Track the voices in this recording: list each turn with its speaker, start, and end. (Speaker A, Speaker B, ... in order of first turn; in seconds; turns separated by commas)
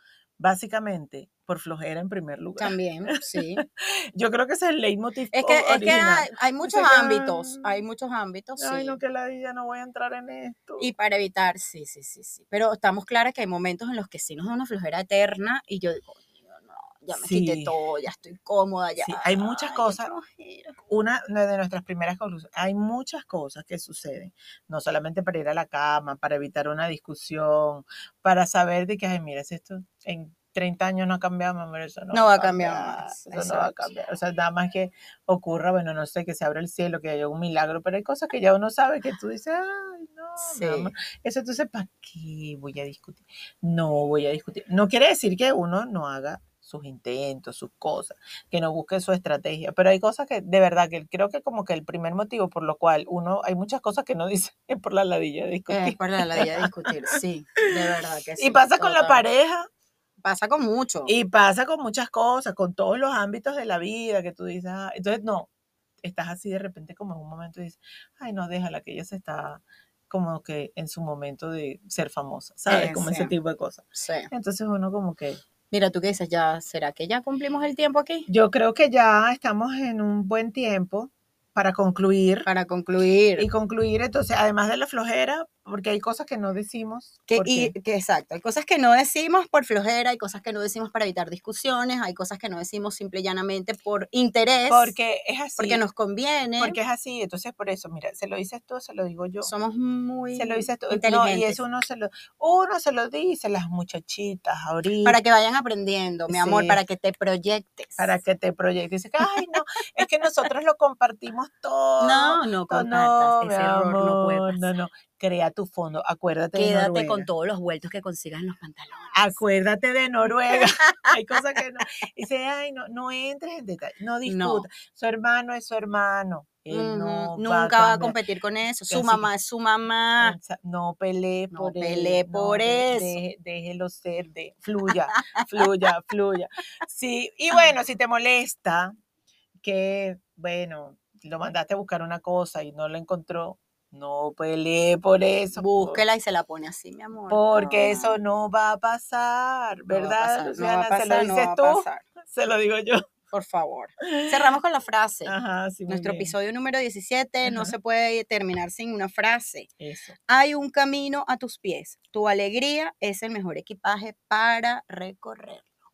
Speaker A: 0.4-7.8, Speaker B: 2.6-3.6, Speaker B: 5.3-9.0, Speaker A: 8.6-10.9, Speaker B: 10.8-20.8, Speaker A: 17.1-17.7, Speaker A: 19.0-20.1, Speaker A: 20.8-57.2, Speaker B: 32.1-33.9, Speaker B: 40.4-40.9, Speaker B: 55.7-59.2, Speaker A: 57.8-59.7, Speaker B: 60.2-61.1, Speaker A: 61.1-65.5, Speaker A: 66.0-75.4, Speaker B: 72.7-73.3, Speaker B: 74.0-74.3, Speaker B: 75.7-78.3, Speaker A: 78.3-82.5, Speaker B: 82.5-83.5, Speaker A: 83.4-87.7, Speaker B: 87.3-94.9, Speaker A: 94.7-95.8, Speaker B: 95.6-96.8, Speaker A: 96.6-99.5, Speaker B: 99.4-101.6, Speaker A: 100.4-105.2, Speaker B: 105.0-108.1, Speaker A: 106.3-106.8, Speaker A: 108.0-117.3, Speaker B: 109.3-109.6, Speaker B: 112.0-114.7, Speaker B: 116.5-119.4, Speaker A: 119.1-128.2, Speaker B: 120.5-121.5, Speaker B: 124.2-124.7, Speaker B: 126.7-130.4, Speaker A: 128.9-129.3, Speaker A: 130.2-138.9, Speaker B: 131.5-133.2, Speaker B: 134.9-135.5, Speaker A: 139.6-146.0, Speaker B: 145.6-148.2, Speaker A: 147.3-153.0, Speaker B: 149.9-152.1, Speaker B: 153.3-155.3, Speaker A: 154.1-154.4, Speaker A: 155.3-156.3, Speaker B: 155.9-159.7, Speaker A: 157.4-157.7, Speaker A: 159.8-160.2, Speaker B: 160.3-165.7